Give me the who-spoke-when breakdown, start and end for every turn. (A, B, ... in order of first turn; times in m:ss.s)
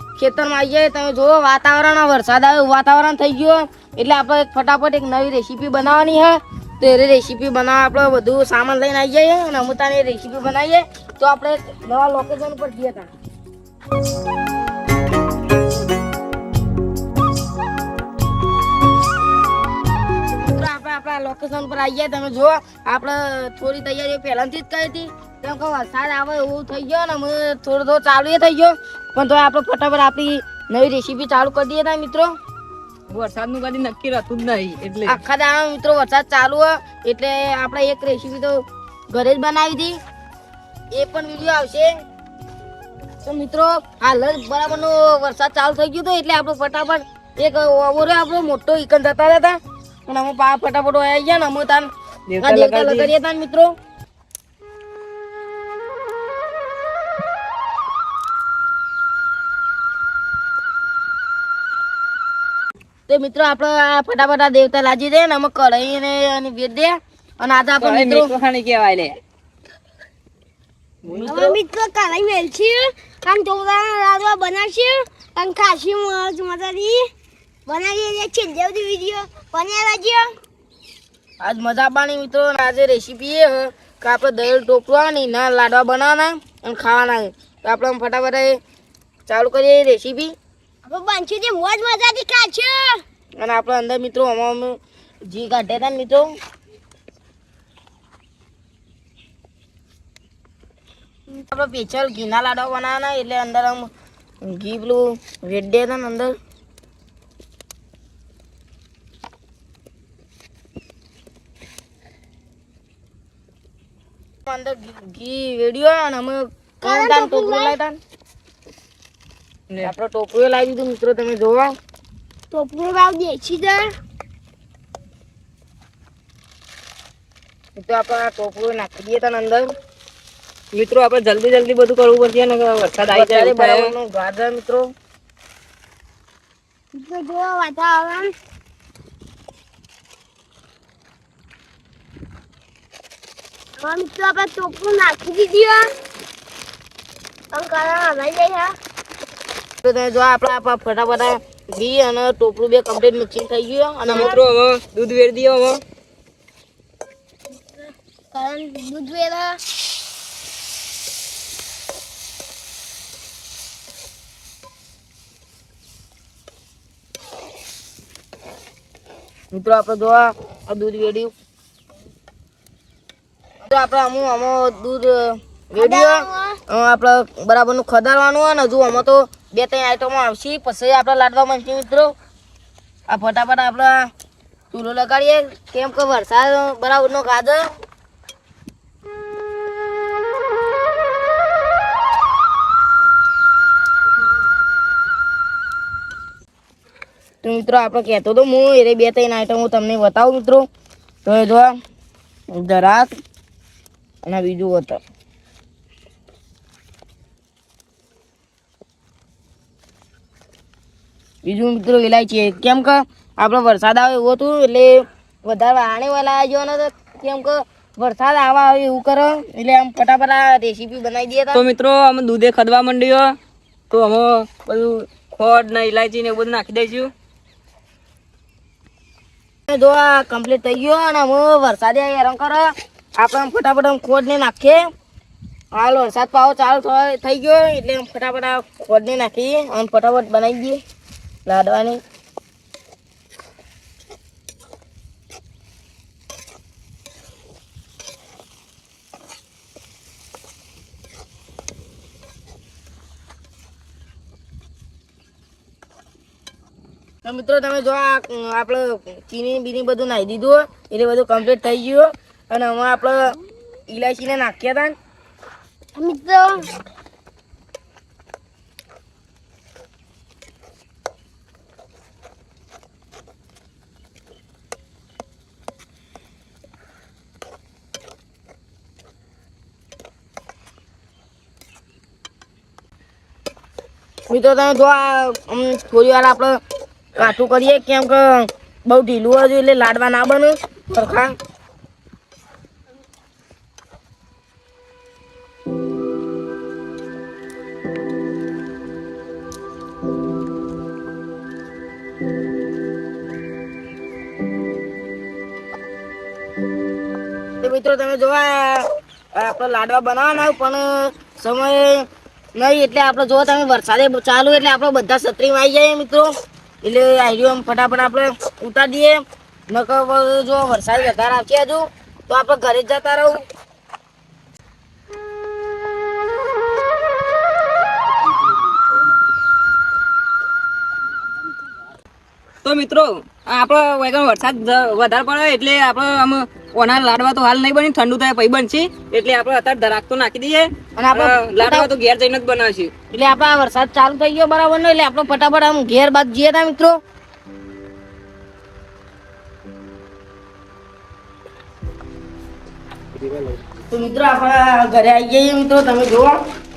0:00.2-0:13.1 A
0:20.3-0:32.3 A
0:33.1-0:35.2 B
0:35.0-0:38.6 A
0:39.1-0:40.0 A
0:40.9-0:41.9 A
0:43.2-0:51.9 A
0:52.3-0:53.1 B
0:52.4-0:53.7 A
1:03.1-1:08.3 A
1:07.8-1:09.2 B
1:11.0-1:11.6 B
1:11.1-1:11.5 A
1:11.2-1:17.1 C
1:17.7-1:20.3 C
1:21.4-1:28.6 A
1:29.3-1:30.3 A
1:30.8-1:33.0 C
1:33.4-1:34.8 A
1:35.3-1:36.3 A
1:41.4-1:43.9 A
1:44.4-1:46.3 A
1:54.5-1:58.0 A
1:56.8-1:57.7 C
1:59.8-2:01.7 A
2:02.5-2:03.9 C
2:07.8-2:09.6 A
2:10.7-2:13.9 B
2:13.1-2:14.8 A
2:16.9-2:18.3 C
2:23.8-2:25.9 C
2:27.5-2:28.7 C
2:29.8-2:34.3 A
2:34.1-2:35.8 B
2:34.1-2:34.4 C
2:38.3-2:39.6 C
2:49.5-2:51.3 A
2:53.6-3:02.1 A
2:55.8-2:56.6 C
3:03.1-3:04.1 A
3:04.7-3:07.7 A
3:17.4-3:20.7 A
3:21.2-3:21.7 A
3:22.5-3:23.1 A
3:24.2-3:25.0 A
3:31.4-3:41.6 A
3:41.5-3:43.3 B
3:43.9-3:47.1 B
3:49.7-3:54.8 A
3:55.7-4:00.8 A
4:01.4-4:02.0 A
4:17.2-4:23.4 A
4:23.9-4:24.9 A
4:26.0-4:26.7 C
4:44.3-4:46.6 A
4:47.1-4:51.3 A
5:07.6-5:08.8 A
5:09.4-5:12.0 A
5:12.6-5:16.3 A
5:16.8-5:23.4 A
5:32.6-5:42.9 B
5:41.0-5:41.9 A
5:43.1-5:47.0 A
5:53.9-5:56.4 A